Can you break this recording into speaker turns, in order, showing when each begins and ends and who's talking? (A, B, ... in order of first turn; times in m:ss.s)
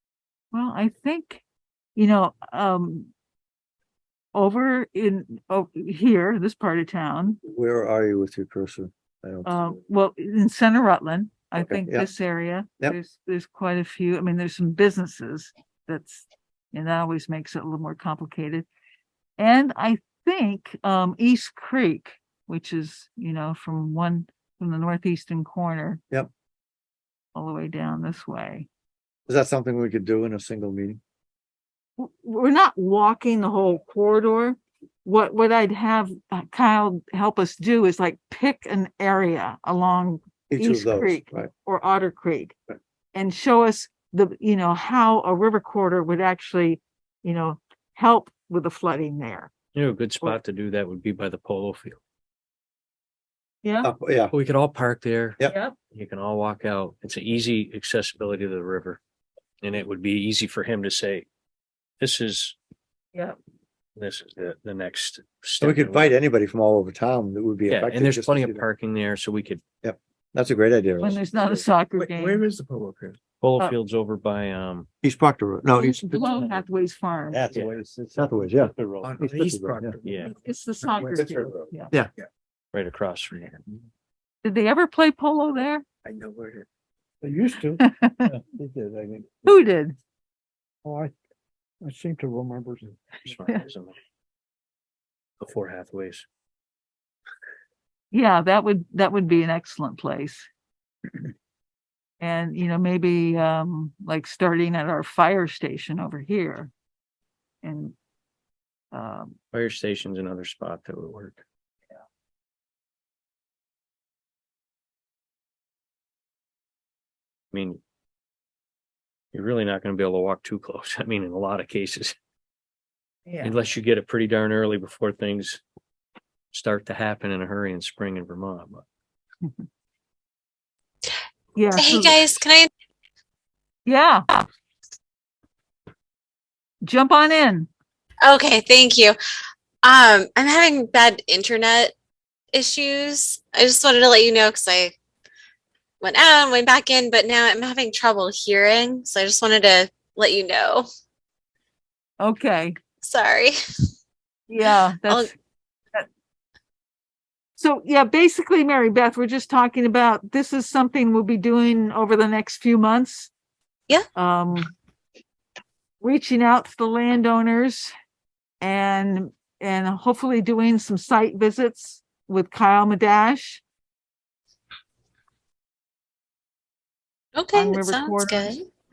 0:00.5-0:01.4 A
0:02.0-0:03.1 A
0:04.3-0:07.4 A
0:07.4-0:09.5 B
0:09.4-0:18.7 A
0:11.5-0:12.1 B
0:19.4-0:26.0 A
0:27.4-0:28.7 A
0:29.3-0:31.0 B
0:32.0-0:42.6 A
0:40.5-0:41.5 B
0:43.1-0:49.5 A
0:49.7-0:52.0 C
0:53.6-0:53.9 A
0:53.8-0:54.3 B
0:54.3-0:59.0 C
0:55.4-0:55.8 A
0:59.6-1:01.3 C
1:02.0-1:02.6 C
1:04.0-1:06.2 C
1:05.6-1:08.7 B
1:07.7-1:09.6 C
1:09.8-1:11.2 B
1:11.0-1:12.4 A
1:11.5-1:13.2 D
1:13.4-1:14.9 C
1:15.0-1:16.5 B
1:15.8-1:17.4 A
1:16.3-1:16.6 D
1:17.3-1:21.7 D
1:18.2-1:20.0 B
1:20.0-1:20.3 C
1:20.2-1:21.9 A
1:22.7-1:23.6 C
1:24.4-1:25.8 A
1:26.0-1:26.7 D
1:27.2-1:29.4 D
1:27.8-1:28.3 A
1:29.4-1:30.0 A
1:30.8-1:31.1 D
1:31.8-1:33.0 D
1:33.2-1:34.0 C
1:35.4-1:36.3 C
1:38.1-1:40.5 A
1:42.2-1:46.7 A
1:47.6-1:47.9 A
1:48.9-1:49.4 A
1:49.5-1:51.4 C
1:57.5-1:57.8 C
1:59.3-2:02.2 C
2:03.3-2:03.6 A
2:03.4-2:05.6 C
2:06.5-2:08.8 C
2:11.6-2:12.2 A
2:11.8-2:12.7 E
2:13.8-2:14.4 A
2:16.8-2:17.7 A
2:18.2-2:19.2 E
2:19.8-2:21.9 E
2:22.5-2:25.0 E
2:26.0-2:30.9 E
2:32.2-2:32.8 A
2:33.0-2:33.9 E
2:34.5-2:35.4 A
2:37.6-2:43.3 A
2:44.2-2:44.7 A
2:46.0-2:47.9 A
2:48.6-2:53.6 A
2:57.4-2:58.7 E
2:57.5-2:58.5 A